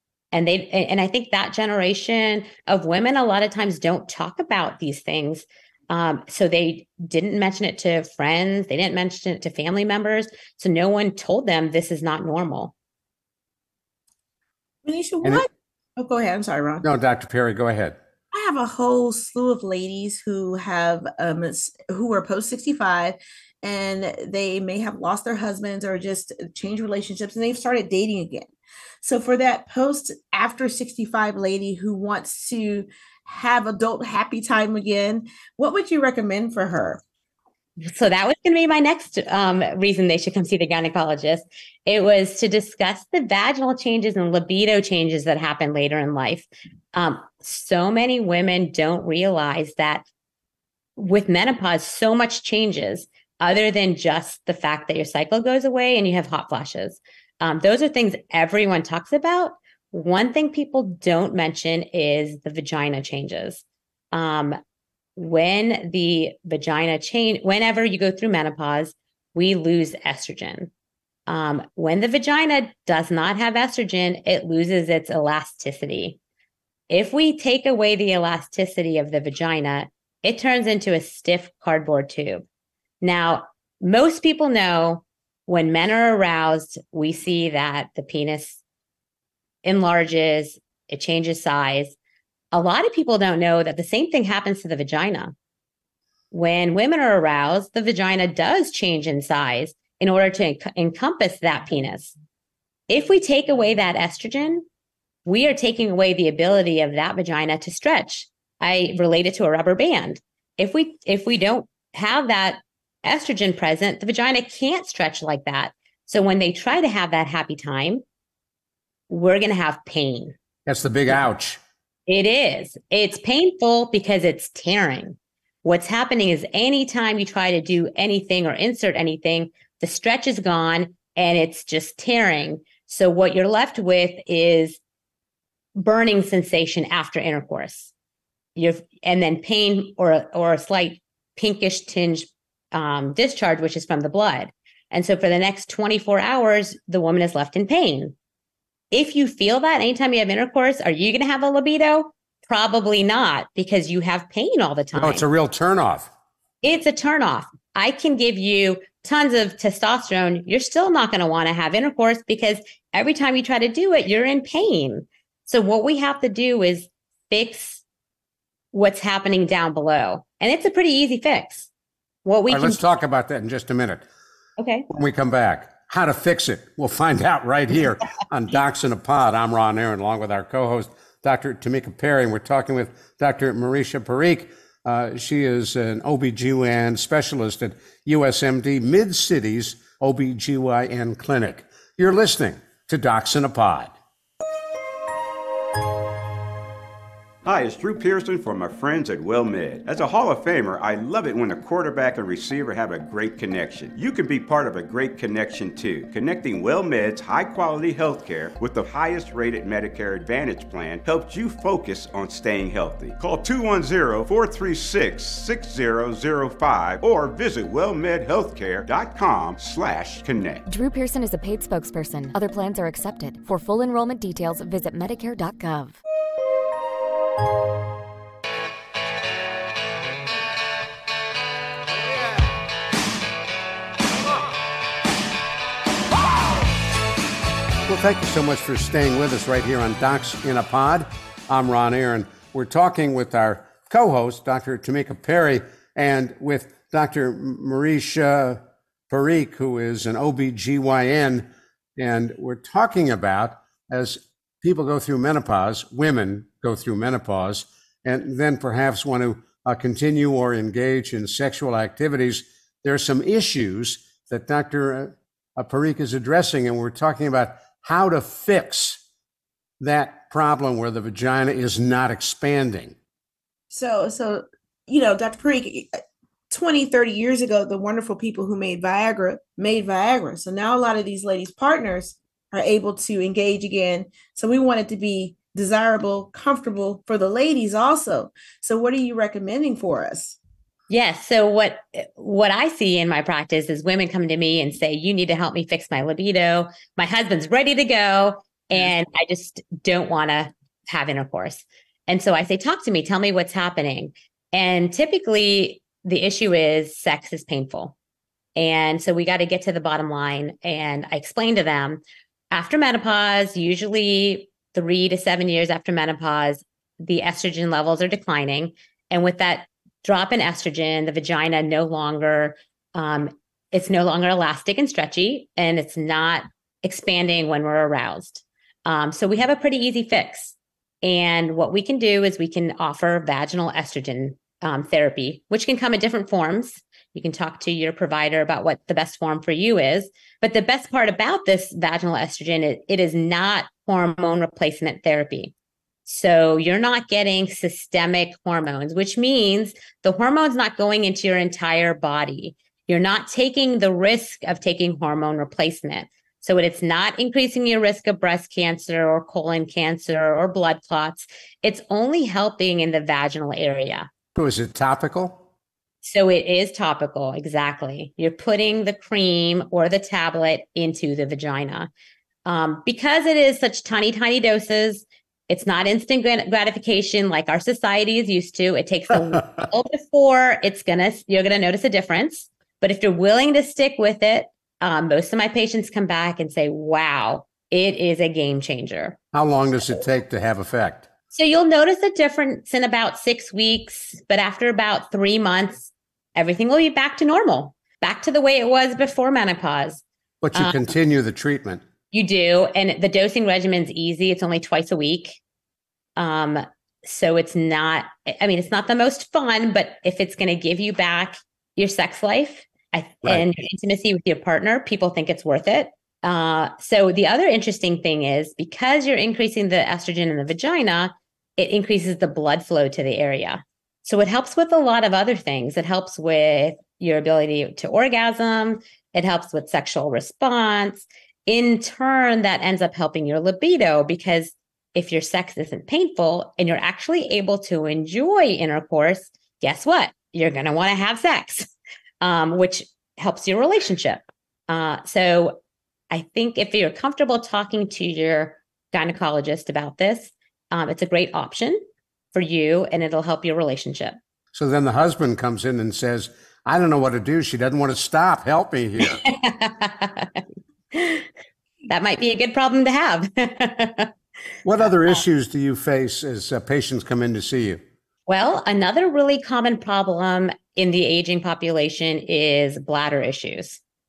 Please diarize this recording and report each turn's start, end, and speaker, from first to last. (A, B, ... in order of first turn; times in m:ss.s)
0:00.3-0:12.7 A
0:14.8-0:16.8 B
0:16.8-0:18.0 C
0:18.3-0:37.0 B
0:37.8-0:50.0 A
0:51.0-1:04.6 A
1:05.2-1:10.7 A
1:11.3-1:16.2 A
1:16.9-1:22.4 A
1:23.0-1:28.6 A
1:29.6-1:32.0 A
1:32.5-1:35.4 A
1:36.3-1:42.1 A
1:42.9-1:44.6 A
1:45.2-1:58.0 A
1:59.1-2:00.4 A
2:00.7-2:01.6 C
2:02.1-2:14.8 A
2:15.8-2:17.9 A
2:18.6-2:28.2 A
2:28.9-2:35.2 A
2:34.9-2:36.1 C
2:36.6-2:47.8 A
2:48.7-2:51.7 A
2:52.2-2:52.8 A
2:52.5-2:54.0 C
2:54.6-2:54.9 A
2:54.9-3:14.0 C
3:17.4-3:40.6 D
3:40.7-3:46.0 E
3:57.9-4:29.0 C
4:29.8-4:33.0 C
4:33.7-4:35.9 B
4:36.5-4:50.4 B
4:50.9-5:08.0 A
5:08.6-5:45.5 A
5:46.1-6:04.1 A
6:04.4-6:05.4 C
6:06.0-6:11.9 A
6:12.5-6:29.2 A
6:29.3-6:31.1 C
6:31.3-6:40.0 A
6:40.4-6:41.8 C
6:40.6-6:40.8 A
6:42.1-6:45.4 A
6:46.2-7:25.6 A
7:26.1-7:34.2 A
7:34.5-7:39.2 C
7:39.1-7:41.3 A
7:41.9-7:44.1 A
7:44.6-7:47.8 C
7:48.3-7:53.8 A